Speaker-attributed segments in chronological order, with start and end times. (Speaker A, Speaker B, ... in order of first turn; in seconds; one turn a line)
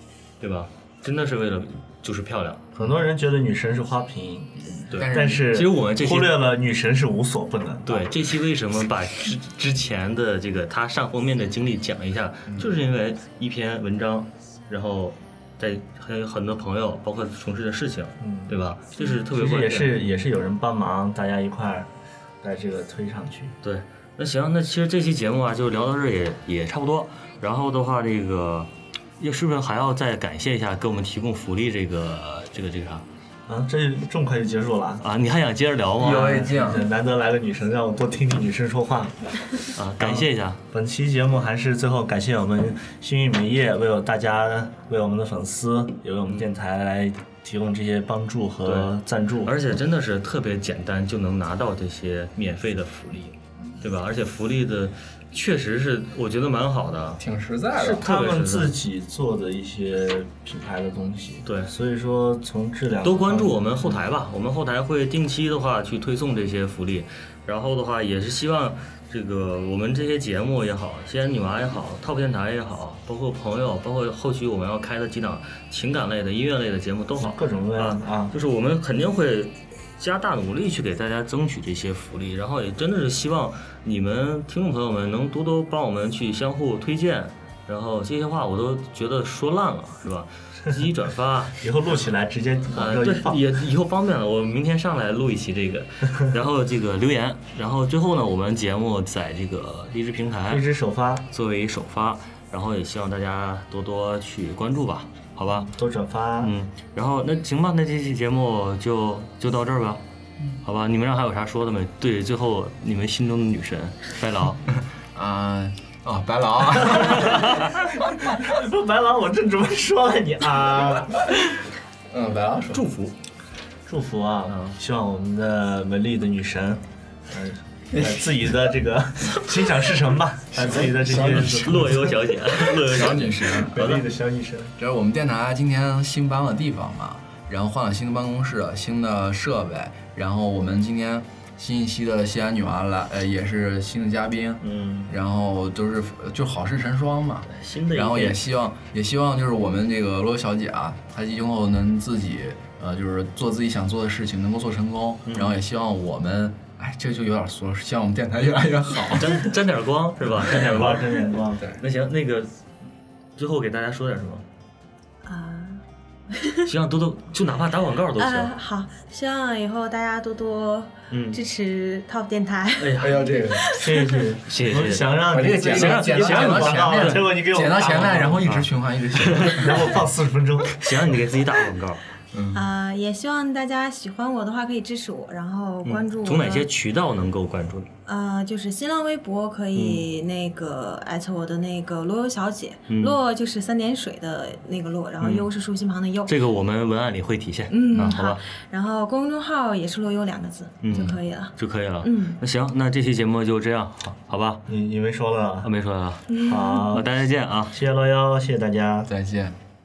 Speaker A: 0.4-2.6
Speaker B: 2.8-4.5
Speaker C: 4.6-5.5
Speaker A: 4.9-6.5
Speaker B: 5.1-8.1
Speaker A: 7.9-20.0
Speaker B: 18.2-18.6
Speaker B: 19.3-21.9
Speaker B: 22.4-23.6
Speaker A: 23.6-33.0
Speaker B: 33.5-35.0
Speaker A: 35.0-36.5
Speaker C: 36.0-36.9
Speaker B: 36.1-39.5
Speaker A: 39.8-40.6
Speaker B: 40.0-49.5
Speaker A: 48.6-57.2
Speaker C: 57.2-58.0
Speaker B: 57.8-64.0
Speaker A: 58.0-58.8
Speaker A: 61.5-61.7
Speaker A: 63.0-91.6
Speaker B: 77.2-78.3
Speaker B: 91.6-93.4
Speaker A: 92.7-100.7
Speaker B: 100.5-101.2
Speaker A: 101.3-105.7
Speaker B: 105.5-106.5
Speaker A: 106.4-110.0
Speaker A: 110.6-114.6
Speaker C: 115.1-117.6
Speaker B: 118.4-121.5
Speaker C: 122.1-122.9
Speaker A: 122.7-123.2
Speaker B: 123.9-132.0
Speaker A: 124.5-124.8
Speaker C: 127.9-128.5
Speaker C: 130.6-132.0
Speaker A: 131.0-134.0
Speaker C: 132.5-133.9
Speaker B: 133.6-134.7
Speaker C: 134.8-159.5
Speaker A: 144.6-145.1
Speaker A: 147.5-148.4
Speaker A: 155.3-155.6
Speaker A: 159.1-162.5
Speaker B: 160.4-161.7
Speaker A: 163.4-164.4
Speaker D: 165.2-165.8
Speaker D: 166.3-166.7
Speaker A: 166.7-168.5
Speaker D: 168.2-173.0
Speaker A: 171.1-171.4
Speaker A: 172.8-173.3
Speaker C: 173.0-173.8
Speaker D: 173.5-174.1
Speaker B: 173.8-178.4
Speaker A: 174.5-177.3
Speaker C: 175.3-179.9
Speaker A: 178.4-179.8
Speaker B: 179.5-180.8
Speaker A: 180.8-182.0
Speaker C: 182.3-182.7
Speaker D: 182.5-186.7
Speaker A: 185.8-187.9
Speaker D: 188.1-196.3
Speaker A: 189.8-190.1
Speaker A: 192.9-193.2
Speaker A: 195.2-195.5
Speaker A: 196.3-198.4
Speaker D: 197.7-202.4
Speaker A: 200.8-204.6
Speaker B: 204.7-205.7
Speaker A: 205.6-207.8
Speaker D: 206.3-206.8
Speaker B: 206.5-207.1
Speaker B: 207.7-209.1
Speaker C: 209.1-209.6